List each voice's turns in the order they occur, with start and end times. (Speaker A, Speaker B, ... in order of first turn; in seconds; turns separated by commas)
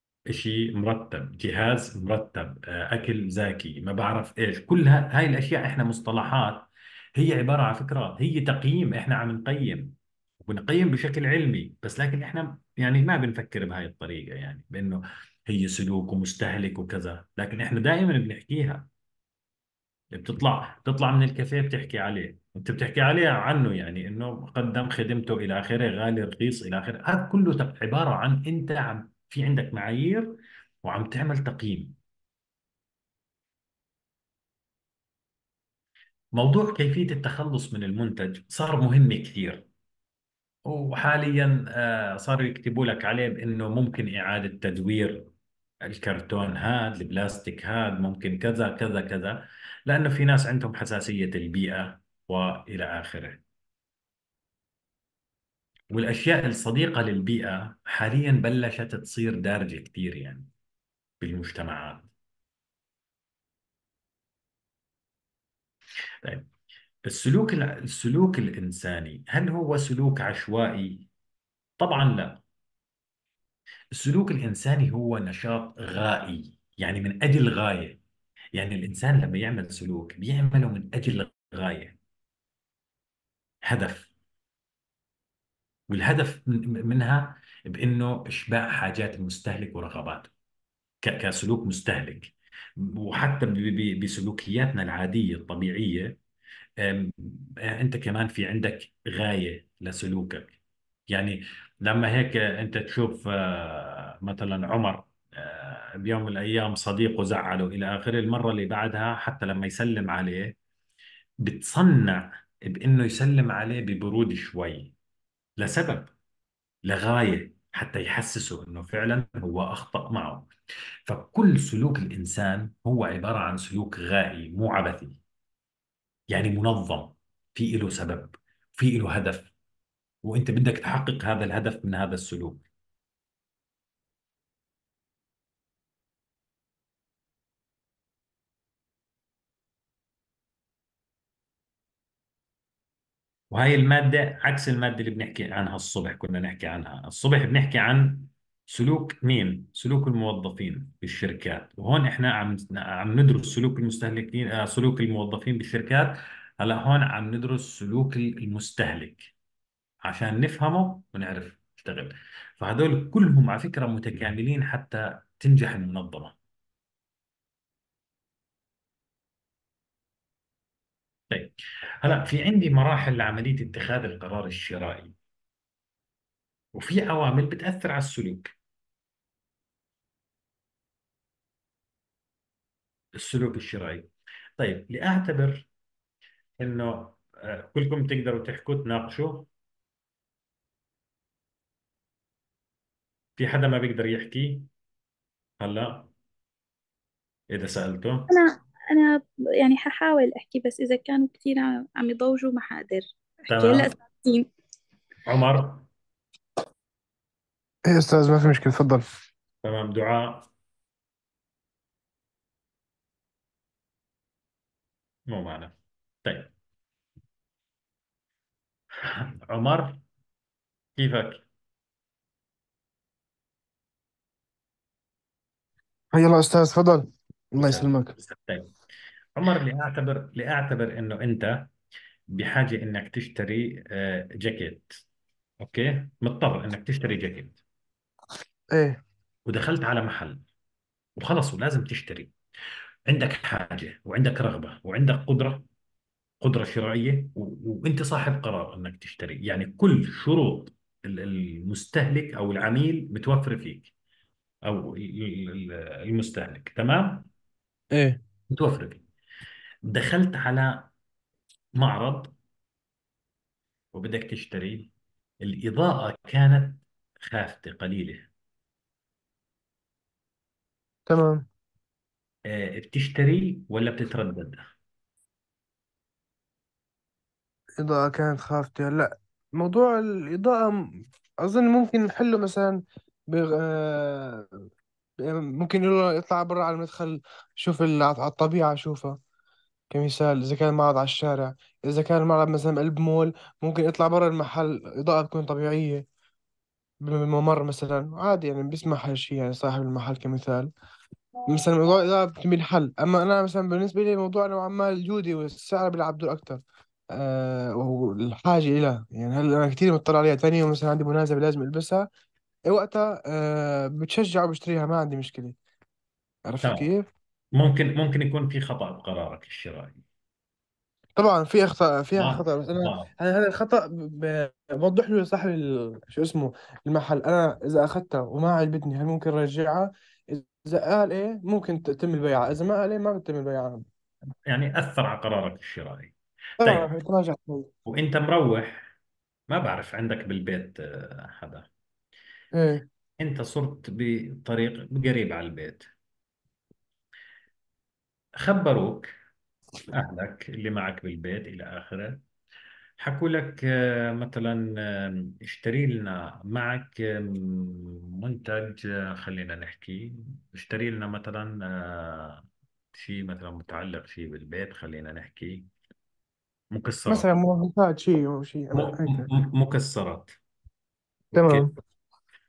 Speaker A: 0.3-18.9, Speaker A: 20.1-32.0, Speaker A: 36.4-39.7, Speaker A: 40.7-45.3, Speaker A: 45.8-53.4, Speaker A: 55.9-60.5, Speaker A: 61.2-62.1, Speaker A: 66.2-66.5, Speaker A: 67.1-71.1, Speaker A: 71.8-72.4, Speaker A: 74.0-78.0, Speaker A: 78.5-82.0, Speaker A: 83.7-84.1, Speaker A: 85.9-90.3, Speaker A: 91.0-96.2, Speaker A: 96.8-100.6, Speaker A: 101.1-110.5, Speaker A: 111.5-114.9, Speaker A: 115.6-116.1, Speaker A: 116.9-120.5, Speaker A: 121.1-125.2, Speaker A: 126.3-129.5, Speaker A: 130.2-132.7, Speaker A: 143.5-159.3, Speaker A: 160.0-166.4, Speaker A: 171.3-175.2, Speaker A: 176.8-178.5, Speaker A: 183.2-185.7, Speaker A: 186.6-189.5, Speaker A: 193.4-194.7, Speaker A: 195.6-196.1, Speaker A: 197.5-198.4, Speaker B: 198.3-204.5, Speaker A: 203.5-203.9, Speaker A: 205.3-205.9, Speaker C: 207.9-209.1, Speaker A: 209.6-210.5, Speaker A: 215.3-216.5, Speaker A: 219.0-220.0, Speaker A: 221.0-221.4, Speaker C: 226.1-228.1, Speaker A: 227.6-228.7, Speaker A: 229.4-231.7, Speaker A: 232.3-234.9, Speaker A: 235.6-237.6, Speaker C: 238.7-239.0, Speaker A: 239.5-240.4, Speaker A: 241.2-242.3, Speaker A: 243.1-245.7, Speaker A: 246.4-253.9, Speaker A: 254.7-257.3, Speaker C: 257.9-258.2, Speaker A: 258.5-259.0, Speaker A: 259.9-260.9, Speaker A: 261.8-262.3, Speaker A: 263.9-268.3, Speaker C: 271.1-271.5, Speaker A: 272.5-274.6, Speaker C: 277.8-284.5, Speaker C: 285.2-289.2, Speaker C: 289.9-296.1, Speaker C: 297.0-300.7, Speaker C: 301.5-312.1, Speaker C: 312.7-315.6, Speaker C: 316.5-317.1, Speaker A: 316.6-316.9, Speaker A: 317.6-320.0, Speaker C: 321.2-333.9, Speaker A: 322.2-323.1, Speaker A: 334.5-336.9, Speaker C: 336.6-337.7, Speaker A: 337.9-338.9, Speaker A: 339.5-341.7, Speaker C: 342.5-342.9, Speaker A: 343.2-345.9, Speaker A: 348.4-349.1, Speaker A: 349.9-352.2, Speaker A: 353.0-365.7, Speaker A: 366.7-367.3, Speaker C: 367.1-369.3, Speaker A: 368.7-370.4, Speaker A: 371.3-371.7, Speaker C: 371.4-371.7